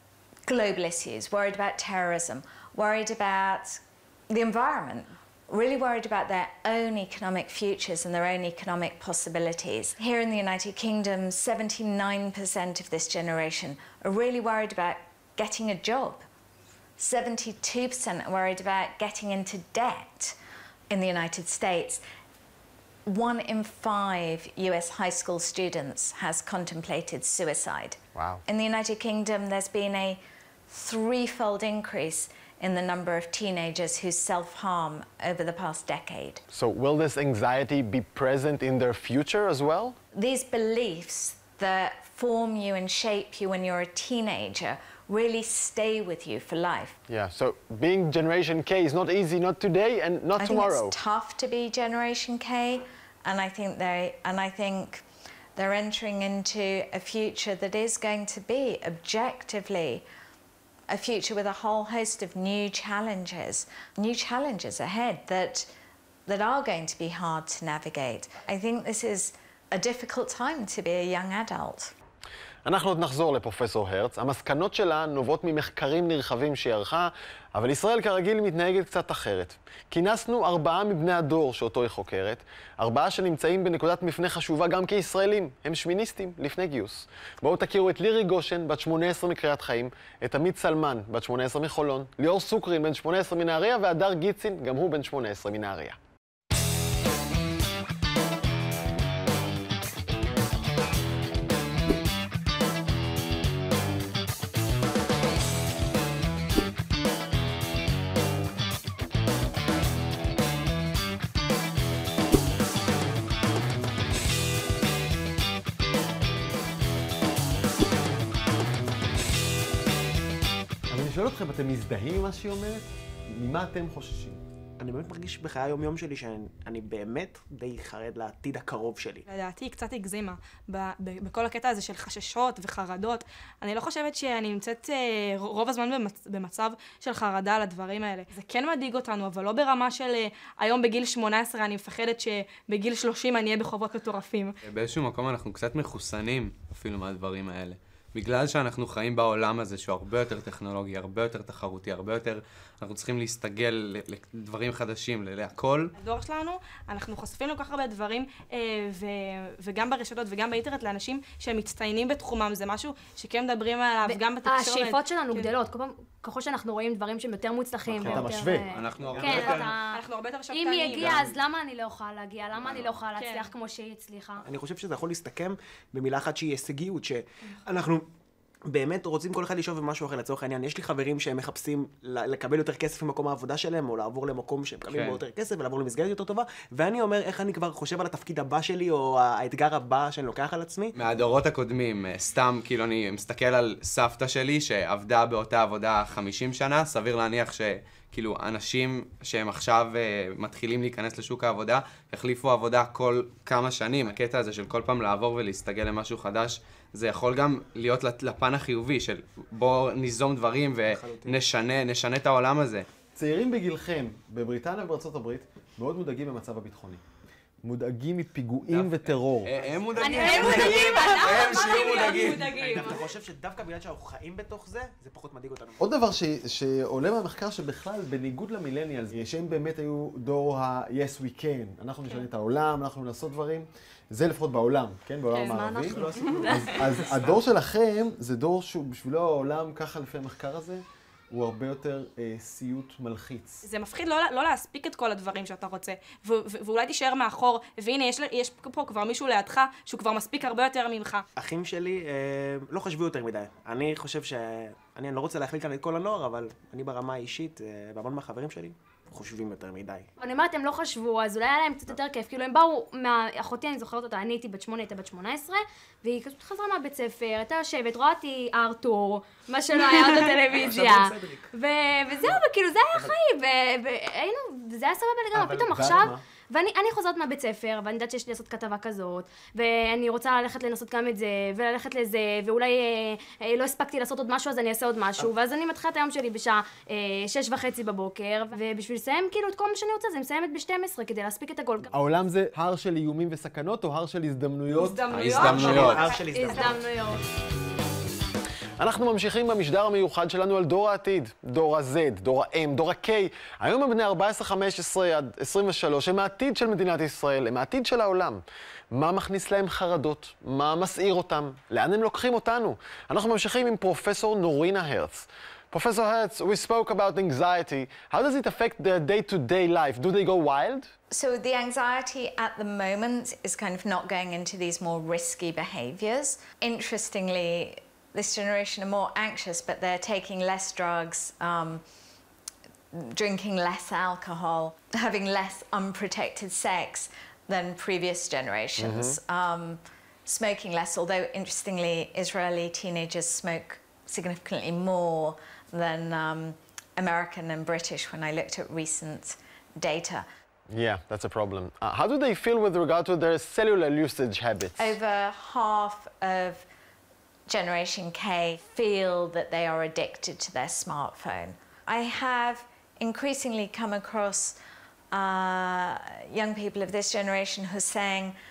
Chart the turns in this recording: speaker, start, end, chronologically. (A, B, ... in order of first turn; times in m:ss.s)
0:00.5-0:16.2 A
0:17.0-0:20.4 A
0:20.9-0:22.0 A
0:23.0-0:36.4 A
0:28.1-0:28.4 B
0:36.5-0:40.0 B
0:40.1-0:47.0 A
0:47.1-0:50.9 B
0:50.4-0:55.0 A
0:55.6-1:00.0 A
1:00.9-1:05.7 A
1:06.2-1:11.9 A
1:12.6-1:36.0 B
2:00.9-2:04.4 B
2:04.8-2:09.2 C
2:09.3-2:24.6 D
2:24.6-2:35.9 E
2:35.9-2:45.5 D
2:44.0-2:50.0 F
2:47.9-2:48.6 B
2:47.9-2:49.7 E
2:49.0-2:49.6 C
2:49.2-2:51.2 D
2:50.5-2:54.4 F
2:51.0-2:51.3 E
2:53.1-2:53.5 D
2:54.4-2:58.0 C
2:58.7-3:10.9 C
3:04.9-3:05.2 E
3:10.9-3:32.9 E
3:30.8-3:31.4 C
3:33.2-3:37.0 B
3:37.6-3:39.5 B
3:38.7-3:42.8 E
3:39.5-3:45.9 C
3:40.0-3:43.1 F
3:45.8-4:03.6 B
3:55.4-3:56.7 F
3:55.8-3:57.4 C
4:03.6-4:11.2 D
4:11.4-4:20.1 C
4:20.2-4:51.9 F
4:30.1-4:31.5 C
4:35.3-4:36.2 B
4:35.7-4:36.1 C
4:51.9-4:55.0 B
4:54.7-4:56.8 D
4:55.1-4:56.1 E
4:55.2-4:57.0 C
4:56.3-4:57.2 F
4:58.8-5:20.9 B
5:21.1-5:31.8 A
5:32.9-5:50.2 A
5:38.8-5:39.2 B
5:50.7-5:55.0 B
5:54.8-5:56.6 A
5:57.5-6:04.6 A
6:05.1-6:08.3 A